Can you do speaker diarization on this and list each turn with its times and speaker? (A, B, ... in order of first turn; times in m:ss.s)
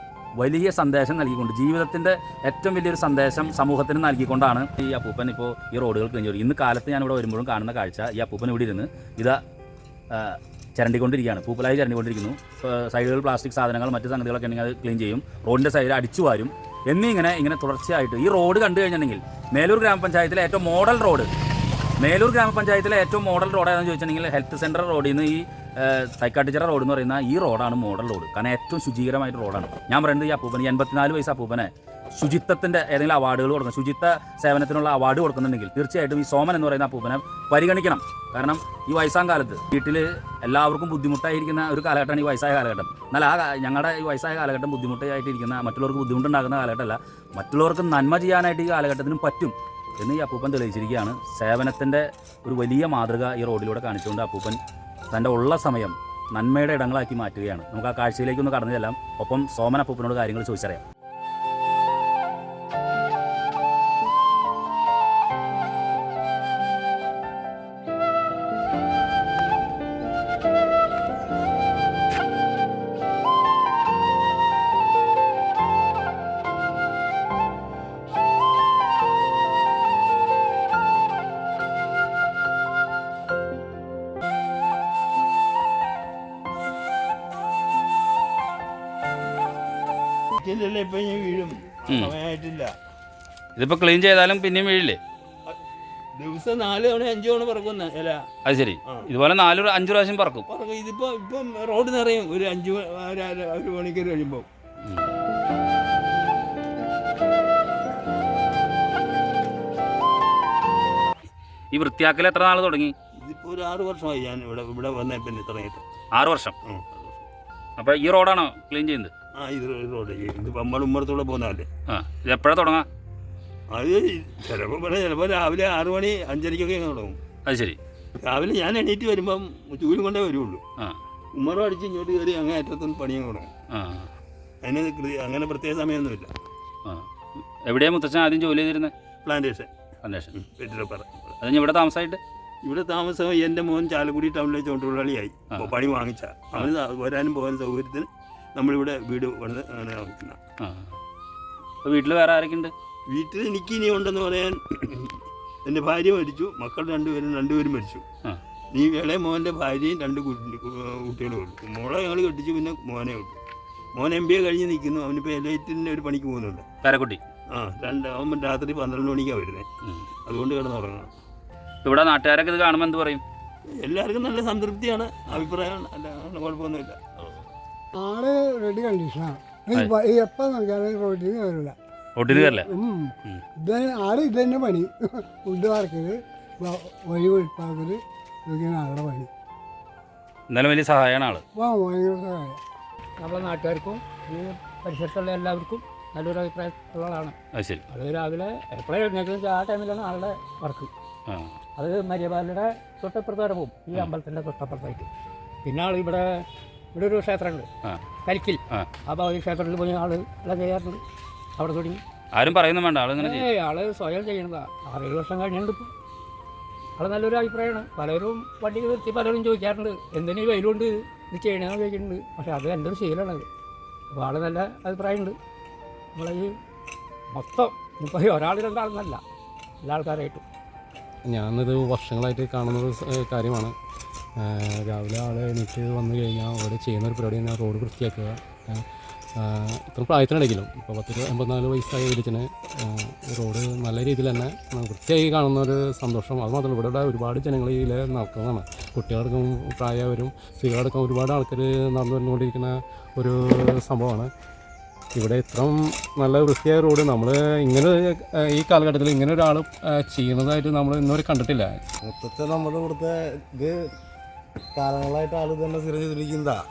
0:00.4-0:09.4 A
0:10.1-0:21.3 A
0:22.0-0:54.6 A
0:55.1-1:00.8 A
1:30.4-1:32.7 B
1:33.6-1:35.0 A
1:36.2-1:38.2 B
1:38.4-1:40.5 A
1:40.5-1:44.5 B
1:51.7-1:52.9 A
1:53.2-1:55.8 B
1:56.1-1:56.5 A
1:56.7-1:57.2 B
1:57.8-1:59.1 A
1:59.4-2:01.7 B
2:01.9-2:02.9 A
2:03.7-2:07.2 B
2:07.5-2:07.8 A
2:08.2-2:10.6 B
2:11.4-2:13.5 B
2:13.7-2:14.1 A
2:14.6-2:16.3 B
2:17.6-2:18.9 A
2:19.2-2:19.7 B
2:20.0-2:20.3 A
2:20.4-2:21.3 B
2:21.4-2:22.2 A
2:22.6-2:30.4 B
2:30.6-2:30.9 A
2:31.8-2:32.7 A
2:33.1-2:38.0 B
2:38.7-2:43.4 B
2:44.0-2:46.6 B
2:46.8-2:47.2 A
2:47.5-2:49.6 B
2:50.3-2:51.1 B
2:51.8-2:53.2 A
2:53.8-2:57.0 B
2:58.0-3:01.8 C
3:02.2-3:02.7 A
3:02.3-3:09.3 C
3:10.5-3:11.4 A
3:11.5-3:12.6 C
3:13.2-3:17.3 D
3:17.6-3:17.8 A
3:17.9-3:20.9 D
3:21.3-3:21.5 A
3:21.8-3:25.1 D
3:25.6-3:26.4 D
3:26.9-3:27.7 D
3:28.2-3:31.0 D
3:31.6-3:32.0 D
3:32.3-3:33.5 A
3:33.2-3:35.9 D
3:37.0-3:43.4 D
3:44.1-3:45.4 D
3:46.2-3:46.5 D
3:47.3-3:49.2 D
3:49.8-3:50.4 D
3:51.2-3:53.8 E
3:54.4-4:14.3 E
4:15.2-4:21.8 E
4:22.1-4:23.7 F
4:24.8-4:26.6 F